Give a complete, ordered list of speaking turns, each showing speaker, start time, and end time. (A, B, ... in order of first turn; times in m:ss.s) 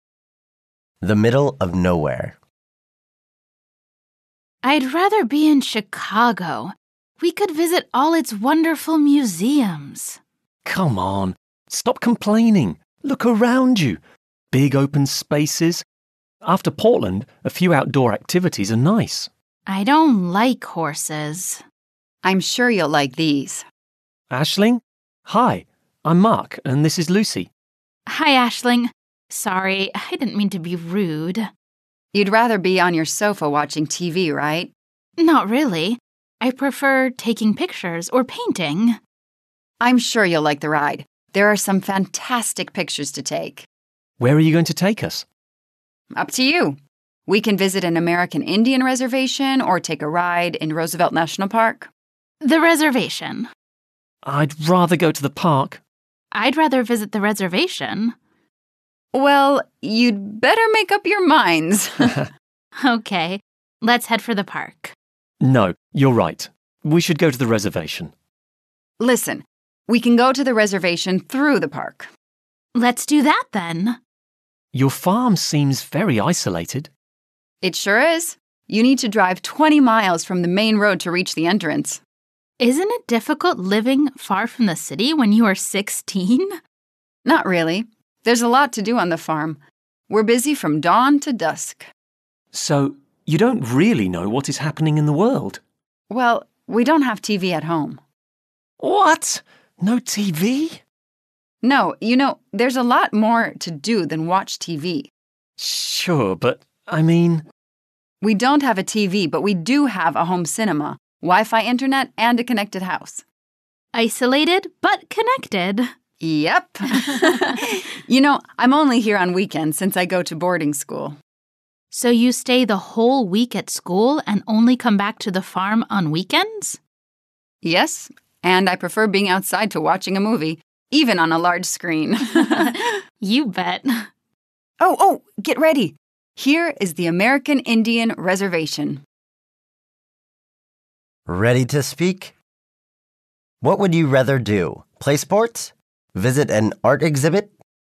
0:01.0-0:02.4 A
0:04.6-0:10.2 B
0:10.6-0:14.0 C
0:14.5-0:15.8 C
0:16.4-0:19.3 C
0:19.7-0:21.6 B
0:22.2-0:23.6 D
0:24.3-0:27.5 C
0:28.1-0:31.5 B
0:32.1-0:34.7 D
0:35.2-0:39.0 B
0:39.8-0:43.6 D
0:44.2-0:45.2 C
0:46.1-0:51.9 D
0:52.4-0:53.5 B
0:54.2-0:55.8 C
0:56.3-0:58.1 B
0:59.1-1:02.3 D
1:02.8-1:04.9 B
1:05.4-1:08.1 C
1:09.0-1:12.1 D
1:12.7-1:14.0 B
1:14.7-1:16.9 C
1:17.6-1:22.0 D
1:22.6-1:26.5 B
1:27.2-1:31.9 D
1:32.5-1:35.6 C
1:36.1-1:38.0 D
1:38.8-1:40.8 C
1:41.6-1:45.1 D
1:45.6-1:47.4 C
1:48.2-1:53.2 D
1:53.9-1:55.9 B
1:56.2-2:01.2 D
2:01.9-2:06.8 B
2:07.6-2:12.9 D
2:13.2-2:14.0 B
2:14.8-2:19.0 D
2:21.3-2:22.3 A
2:23.6-2:27.5 A